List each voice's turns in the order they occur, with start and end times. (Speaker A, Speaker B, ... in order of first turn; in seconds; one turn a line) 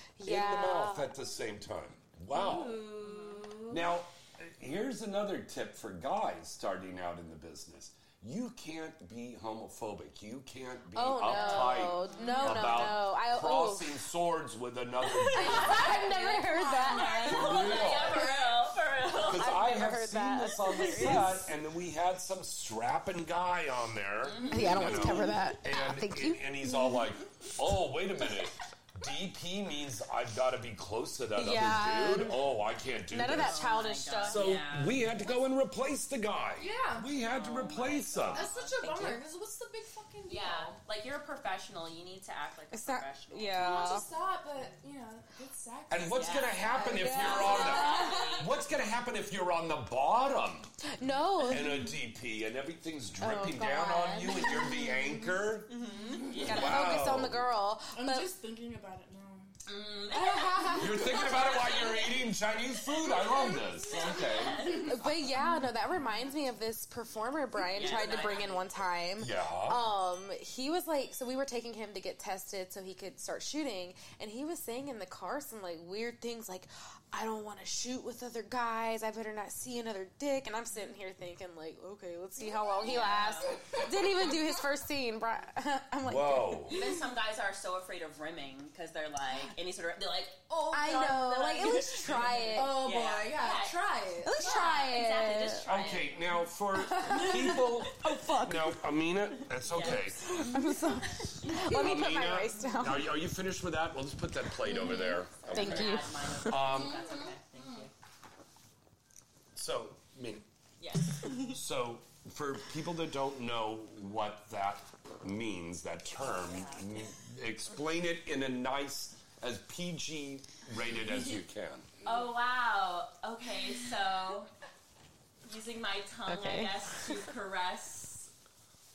Speaker A: 0.2-1.1
Speaker B: 0.2-2.9
Speaker C: 2.3-3.8
Speaker D: 3.0-3.5
Speaker B: 3.7-15.9
Speaker A: 10.9-13.9
Speaker D: 11.3-12.6
Speaker C: 12.1-12.7
Speaker C: 15.3-18.6
Speaker A: 15.3-17.6
Speaker D: 16.9-19.6
Speaker B: 17.2-18.3
Speaker B: 19.2-33.7
Speaker A: 19.3-21.5
Speaker D: 24.2-25.3
Speaker A: 24.5-27.0
Speaker A: 31.4-32.4
Speaker A: 33.1-34.5
Speaker D: 33.2-35.1
Speaker B: 34.2-38.5
Speaker C: 36.6-40.8
Speaker D: 37.2-39.2
Speaker A: 38.8-39.2
Speaker D: 40.3-44.0
Speaker A: 42.7-44.1
Speaker C: 43.5-48.5
Speaker B: 45.9-50.7
Speaker D: 46.1-48.5
Speaker A: 46.8-48.4
Speaker A: 50.9-51.9
Speaker B: 51.5-55.8
Speaker A: 53.2-55.3
Speaker D: 55.7-57.0
Speaker C: 55.8-56.5
Speaker B: 56.4-57.4
Speaker A: 56.4-58.3
Speaker C: 57.9-59.5
Speaker D: 59.7-62.1
Speaker A: 60.1-61.1
Speaker B: 60.8-64.6
Speaker D: 63.1-65.0
Speaker C: 63.2-65.8
Speaker A: 64.7-86.7
Speaker D: 67.7-68.9
Speaker B: 69.2-69.8
Speaker C: 82.4-84.5
Speaker D: 82.8-83.5
Speaker B: 86.0-86.8
Speaker D: 86.7-93.8
Speaker C: 90.5-91.1
Speaker A: 90.7-92.9
Speaker C: 92.5-94.7
Speaker A: 94.2-95.7
Speaker D: 94.4-96.4
Speaker B: 95.7-100.5
Speaker A: 96.8-98.9
Speaker D: 99.7-100.6
Speaker A: 99.9-103.1
Speaker D: 101.4-102.1
Speaker B: 101.6-107.0
Speaker A: 104.6-106.7
Speaker D: 105.4-107.9
Speaker C: 106.7-107.9
Speaker B: 109.5-110.5
Speaker D: 110.8-111.5
Speaker B: 111.3-121.9
Speaker D: 116.2-117.0
Speaker D: 122.0-124.5
Speaker D: 125.4-128.3
Speaker A: 126.3-127.2